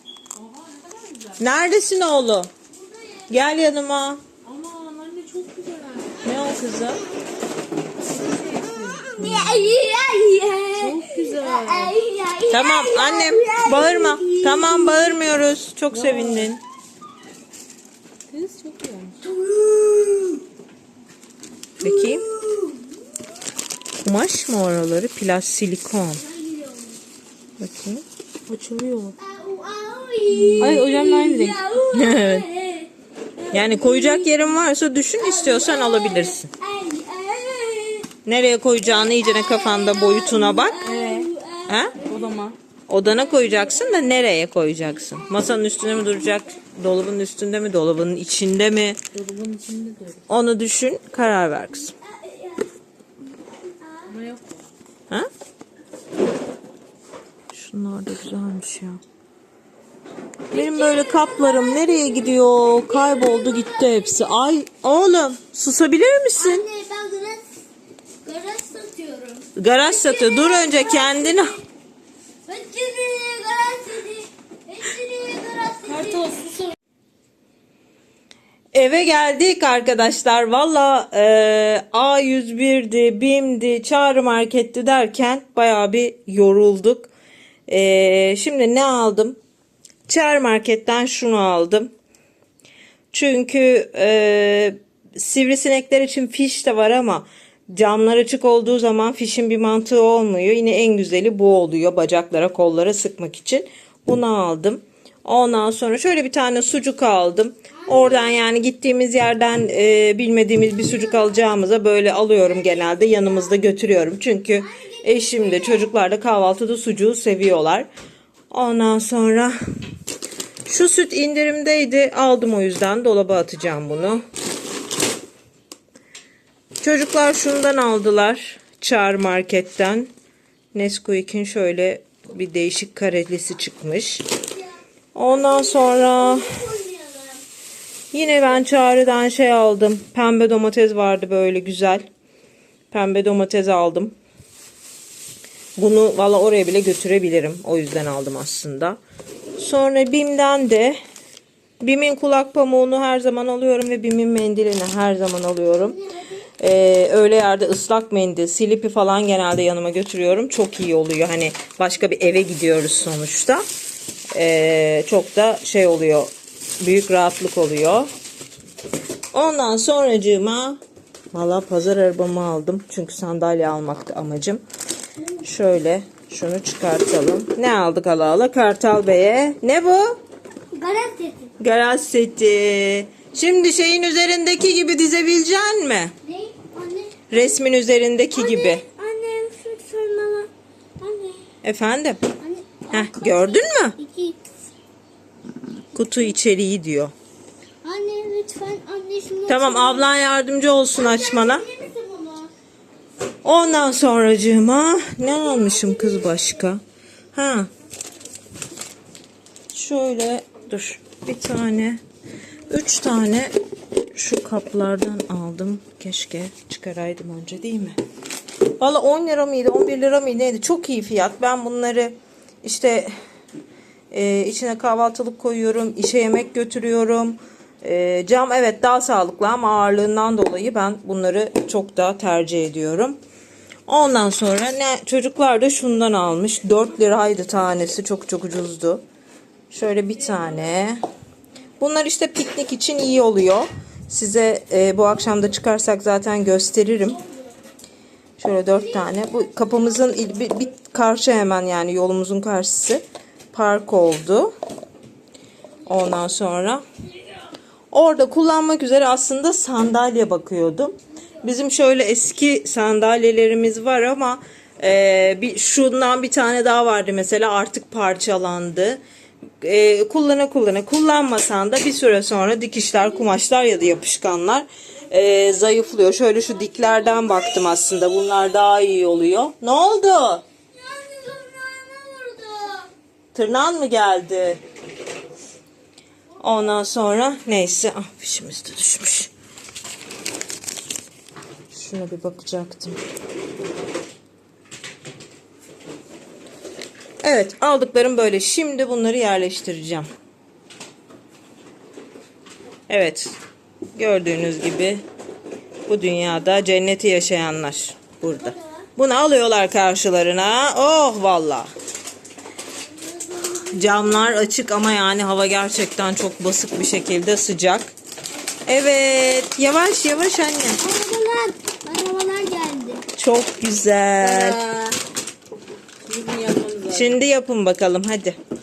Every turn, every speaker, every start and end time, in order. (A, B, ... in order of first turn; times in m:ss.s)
0:00.3-0:01.5 A
0:01.4-0:02.5 B
0:02.7-0:03.3 C
0:03.3-0:04.2 B
0:04.4-0:06.4 A
0:06.2-0:07.0 B
0:08.0-0:09.2 A
0:09.1-0:15.2 C
0:09.2-0:09.7 B
0:10.8-0:12.0 A
0:12.5-0:16.6 B
0:15.9-0:16.5 A
0:18.3-0:19.2 A
0:19.2-0:20.4 C
0:21.8-0:22.2 B
0:21.8-0:22.9 C
0:24.0-0:26.2 B
0:26.2-0:27.0 C
0:27.6-0:28.0 B
0:28.5-0:29.2 A
0:29.2-0:34.6 C
0:30.3-0:31.6 A
0:31.9-0:32.5 B
0:33.5-0:36.5 B
0:35.2-0:38.1 C
0:38.2-0:40.8 B
0:38.8-0:42.3 C
0:40.8-0:41.3 A
0:41.7-0:42.0 B
0:42.0-0:42.6 A
0:42.9-0:49.0 B
0:43.0-0:44.3 C
0:44.8-0:46.6 C
0:49.1-0:50.2 A
0:50.3-0:51.9 B
0:51.9-0:52.7 C
0:53.6-0:54.1 C
0:54.1-0:54.7 A
0:57.5-0:59.0 B
1:00.5-1:04.3 C
1:00.5-1:06.7 B
1:06.4-1:07.5 C
1:08.2-1:11.6 C
1:09.6-1:11.6 B
1:12.5-1:16.4 C
1:15.8-1:16.8 A
1:18.7-1:27.1 B
1:27.7-1:29.4 B
1:30.1-1:31.9 B
1:33.1-1:57.9 B
1:47.7-1:48.4 C
1:50.7-1:53.6 C
1:54.6-1:56.0 C
1:58.5-1:59.6 B
2:00.6-2:04.2 B
2:03.8-2:04.2 C
2:06.8-2:10.1 B
2:10.7-2:14.3 B
2:15.1-2:16.6 B
2:15.3-2:17.4 C
2:18.1-2:22.1 B
2:22.9-2:24.2 B
2:25.8-2:29.0 B
2:29.6-2:31.0 B
2:31.8-2:36.0 B
2:35.7-2:36.5 C
2:36.6-2:43.6 B
2:44.3-2:48.1 B
2:49.3-2:50.8 B
2:51.3-2:54.6 B
2:55.4-3:00.2 B
3:00.7-3:01.5 C
3:01.6-3:06.2 B
3:06.2-3:07.6 C
3:07.3-3:08.8 B
3:08.3-3:11.5 C
3:11.6-3:12.2 B
3:12.4-3:14.4 C
3:12.9-3:14.0 B
3:16.0-3:17.1 B
3:17.8-3:20.1 C
3:19.5-3:21.7 B
3:21.0-3:22.5 C
3:23.4-3:26.8 B
3:25.2-3:26.6 C
3:27.3-3:27.7 B
3:29.7-3:32.0 B
3:32.7-3:33.5 B
3:34.1-3:38.0 B
3:38.8-3:43.2 B
3:44.1-3:53.2 B
3:53.9-3:59.0 B
3:59.7-4:01.0 B
4:01.8-4:07.2 B
4:08.4-4:14.5 B
4:08.9-4:09.8 C
4:15.9-4:16.8 B
4:17.9-4:29.0 B
4:29.6-4:40.4 B
4:36.1-4:38.6 C
4:40.7-4:42.9 C
4:43.3-4:44.6 B
4:46.4-4:49.3 B
4:51.7-4:53.0 B
4:57.2-5:00.1 B
5:02.9-5:03.3 B
5:04.0-5:05.0 B
5:05.9-5:11.7 B
5:08.2-5:08.9 C
5:12.8-5:14.5 C
5:13.7-5:18.0 B
5:18.7-5:20.8 B
5:20.8-5:23.0 C
5:23.2-5:24.6 B
5:24.2-5:25.0 A
5:26.0-5:27.2 A
5:26.9-5:28.4 B